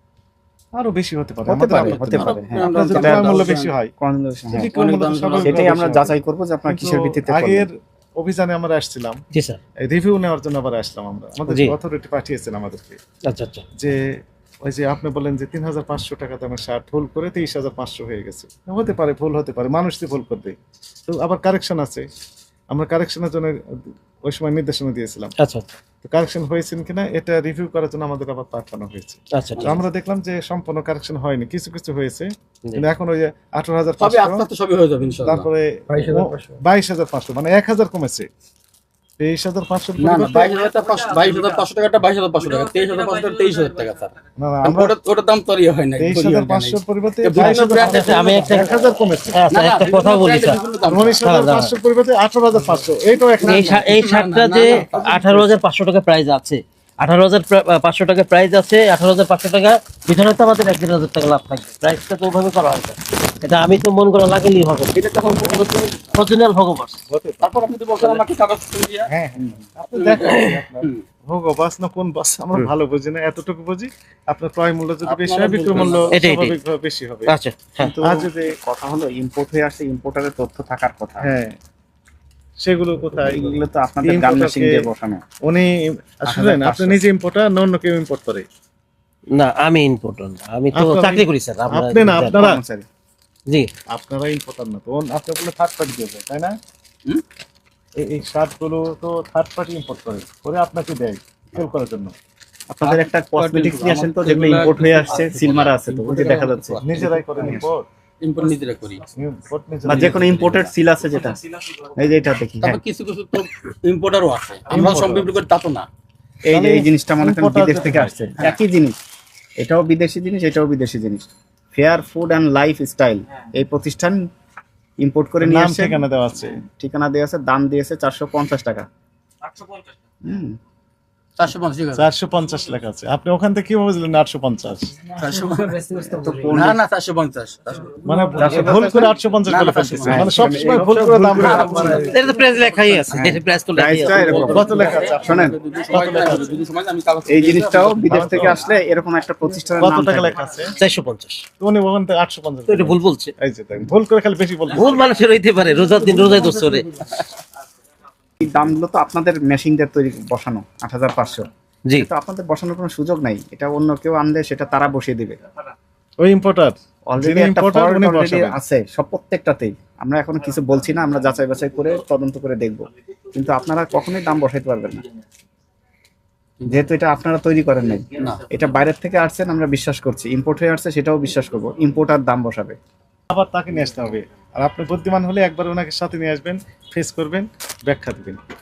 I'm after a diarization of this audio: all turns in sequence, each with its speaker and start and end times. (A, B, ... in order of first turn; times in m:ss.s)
0:00.7-0:03.9 A
0:01.5-0:04.8 B
0:01.8-0:03.7 C
0:04.5-0:06.1 A
0:04.6-0:05.9 C
0:05.4-0:07.7 B
0:06.7-0:09.2 A
0:09.3-0:09.6 D
0:09.8-0:13.0 A
0:11.5-0:11.8 D
0:13.3-0:13.6 D
0:14.6-0:20.6 A
0:21.1-0:22.1 A
0:22.7-0:25.3 A
0:25.4-0:25.7 D
0:26.0-0:34.5 A
0:29.4-0:29.8 D
0:29.6-0:29.9 C
0:34.0-0:36.6 C
0:35.2-0:38.3 A
0:39.2-0:40.6 A
0:40.0-0:48.7 C
0:44.4-0:45.0 A
0:46.0-0:49.4 A
0:47.8-0:50.6 D
0:49.5-0:51.2 C
0:50.9-0:53.8 A
0:51.2-0:51.8 D
0:53.4-0:55.5 C
0:53.4-1:05.0 D
1:05.0-1:06.2 C
1:06.1-1:07.0 D
1:07.1-1:07.7 A
1:07.4-1:09.1 C
1:09.1-1:17.4 A
1:10.0-1:11.0 C
1:15.0-1:16.1 C
1:16.1-1:16.6 D
1:17.3-1:17.9 D
1:17.8-1:21.3 B
1:18.0-1:18.6 A
1:21.2-1:21.6 A
1:22.6-1:24.7 A
1:23.3-1:25.2 B
1:25.4-1:28.4 A
1:26.3-1:27.0 B
1:29.3-1:32.4 D
1:30.7-1:32.6 A
1:32.3-1:32.9 B
1:33.9-1:36.6 A
1:38.0-1:42.1 A
1:42.7-1:46.8 B
1:42.8-1:47.6 C
1:46.8-1:47.9 A
1:48.2-1:49.1 C
1:49.2-1:50.6 A
1:49.8-1:52.8 B
1:49.9-1:50.7 C
1:52.6-1:55.9 C
1:54.7-1:55.3 A
1:56.5-1:59.0 B
1:56.5-1:58.2 A
1:59.6-2:04.3 B
2:05.0-2:06.0 B
2:05.4-2:06.6 A
2:06.6-2:08.9 B
2:10.2-2:10.6 B
2:11.4-2:12.1 C
2:11.9-2:15.0 A
2:15.1-2:20.3 C
2:16.0-2:16.8 B
2:18.0-2:22.1 A
2:20.0-2:22.1 B
2:21.4-2:22.1 C
2:22.0-2:24.8 D
2:23.1-2:25.6 B
2:24.1-2:28.4 C
2:24.5-2:26.6 A
2:27.3-2:30.4 B
2:28.1-2:28.6 A
2:29.8-2:30.7 A
2:30.8-2:31.5 D
2:31.6-2:35.0 A
2:32.7-2:33.3 D
2:34.7-2:36.9 D
2:38.4-2:41.5 B
2:42.0-2:45.4 B
2:46.2-2:48.6 A
2:47.1-2:55.0 B
2:56.6-2:56.9 C
2:56.7-3:02.8 B
2:58.1-2:58.4 C
3:03.3-3:08.4 A